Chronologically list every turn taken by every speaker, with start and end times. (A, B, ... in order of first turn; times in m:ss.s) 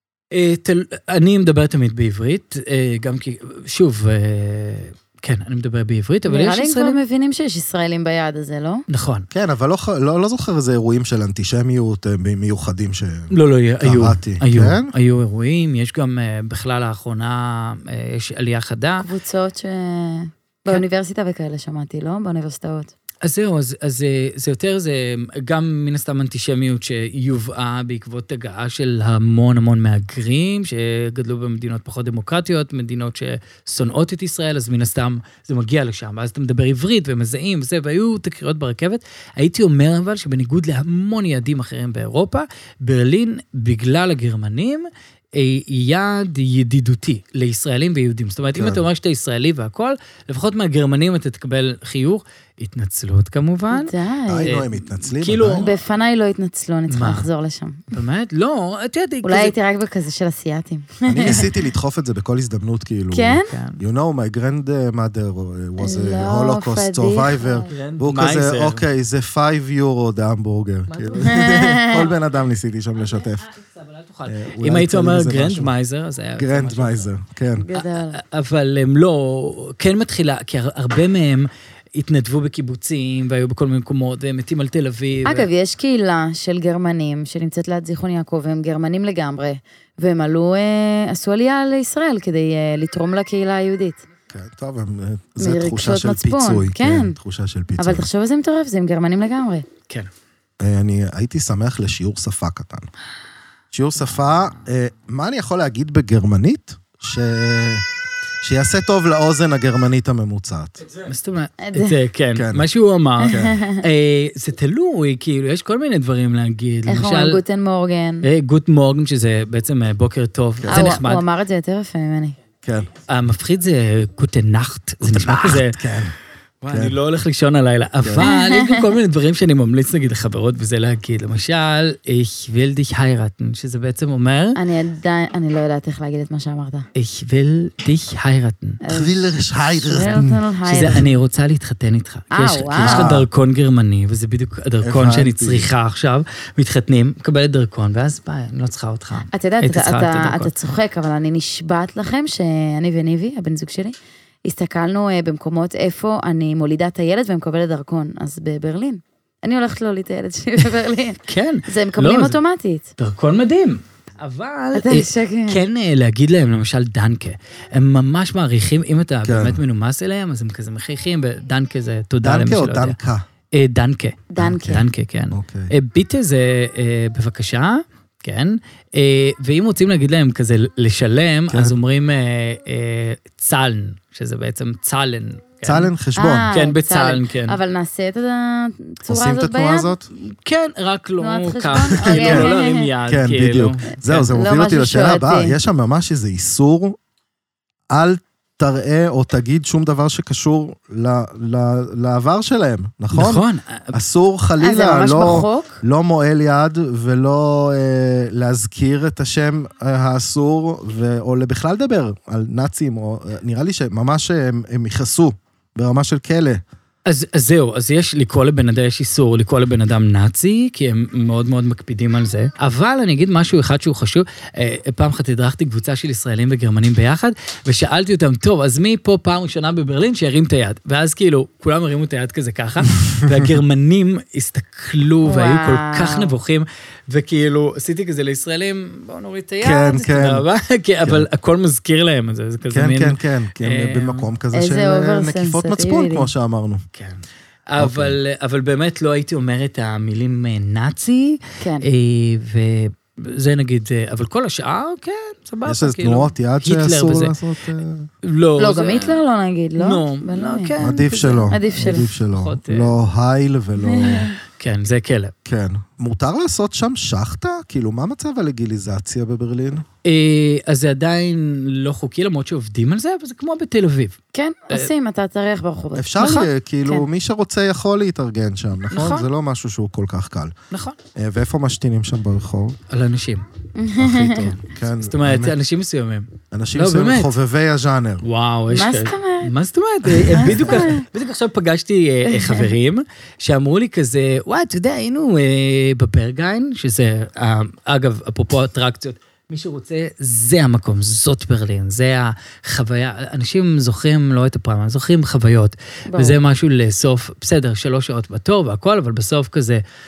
0:00.3-0:07.0 A
0:06.3-0:08.8 B
0:08.9-0:09.3 A
0:09.3-0:14.9 C
0:13.3-0:19.1 A
0:19.0-0:22.9 B
0:23.2-0:55.7 A
0:48.5-0:48.8 C
0:53.7-0:54.6 B
0:54.3-0:55.6 C
0:55.6-0:57.9 B
0:56.9-0:57.3 A
0:57.9-0:59.5 A
0:59.2-1:01.5 B
1:01.1-1:13.5 C
1:03.1-1:03.5 B
1:03.4-1:03.8 A
1:05.8-1:07.7 B
1:07.7-1:08.8 A
1:10.9-1:12.1 A
1:11.2-1:12.1 B
1:13.5-1:17.1 A
1:14.2-1:15.7 C
1:16.4-1:17.6 C
1:17.6-1:18.2 B
1:17.7-1:25.5 A
1:25.2-1:34.0 B
1:34.3-1:38.1 C
1:35.4-1:37.2 B
1:37.8-1:39.6 B
1:40.6-1:42.9 C
1:43.7-1:47.8 C
1:48.4-1:50.8 C
1:51.0-1:57.4 A
1:51.6-1:52.0 B
1:52.4-1:52.7 C
1:53.2-1:53.8 B
1:53.3-1:53.6 C
1:56.8-1:58.3 B
1:58.2-2:01.2 A
2:00.6-2:00.8 C
2:00.7-2:02.4 B
2:02.6-2:02.9 C
2:03.1-2:06.0 A
2:05.0-2:06.2 C
2:06.6-2:14.6 A
2:06.7-2:07.0 C
2:08.2-2:08.9 B
2:14.6-2:16.8 B
2:17.0-2:18.8 A
2:18.8-2:19.3 B
2:18.9-2:21.0 C
2:19.8-2:21.1 B
2:19.9-2:30.5 A
2:22.3-2:23.1 B
2:22.8-2:23.3 C
2:24.8-2:25.7 C
2:29.3-2:42.9 B
2:41.3-2:42.4 A
2:43.0-2:53.0 A
2:44.7-2:45.6 B
2:49.2-2:49.6 C
2:52.2-2:53.2 C
2:53.5-3:05.9 A
2:54.3-2:54.8 B
2:54.4-2:54.8 C
2:55.3-2:55.7 C
3:01.5-3:01.8 C
3:05.6-3:06.5 C
3:06.2-3:09.9 B
3:06.5-3:07.6 A
3:09.1-3:10.1 C
3:10.1-3:14.3 A
3:11.2-3:12.9 B
3:12.0-3:12.5 C
3:13.1-3:17.0 C
3:14.3-3:15.6 B
3:17.9-3:36.6 C
3:23.1-3:23.9 A
3:24.6-3:25.8 B
3:37.0-4:04.3 A
3:55.2-3:56.4 B
3:59.6-4:00.4 C
4:01.0-4:01.3 C
4:02.7-4:06.8 C
4:04.5-4:06.3 B
4:06.9-4:17.4 A
4:07.8-4:08.2 C
4:11.6-4:11.9 B
4:15.6-4:18.1 C
4:18.2-4:19.2 A
4:18.6-4:20.8 B
4:19.8-4:23.0 A
4:20.8-4:24.3 C
4:21.5-4:22.1 B
4:23.8-4:24.4 B
4:24.6-4:25.3 A
4:25.4-4:29.8 C
4:30.0-4:34.2 A
4:34.3-4:37.0 B
4:36.0-4:40.5 C
4:38.9-4:39.3 A
4:40.7-4:41.0 A
4:41.2-4:42.8 C
4:42.9-4:43.5 A
4:43.8-4:44.6 B
4:44.0-4:45.5 C
4:44.8-4:47.3 A
4:46.5-4:48.2 C
4:48.2-5:09.8 A
4:48.7-4:49.5 B
4:50.1-4:51.0 B
4:52.2-4:52.7 B
5:06.1-5:06.4 B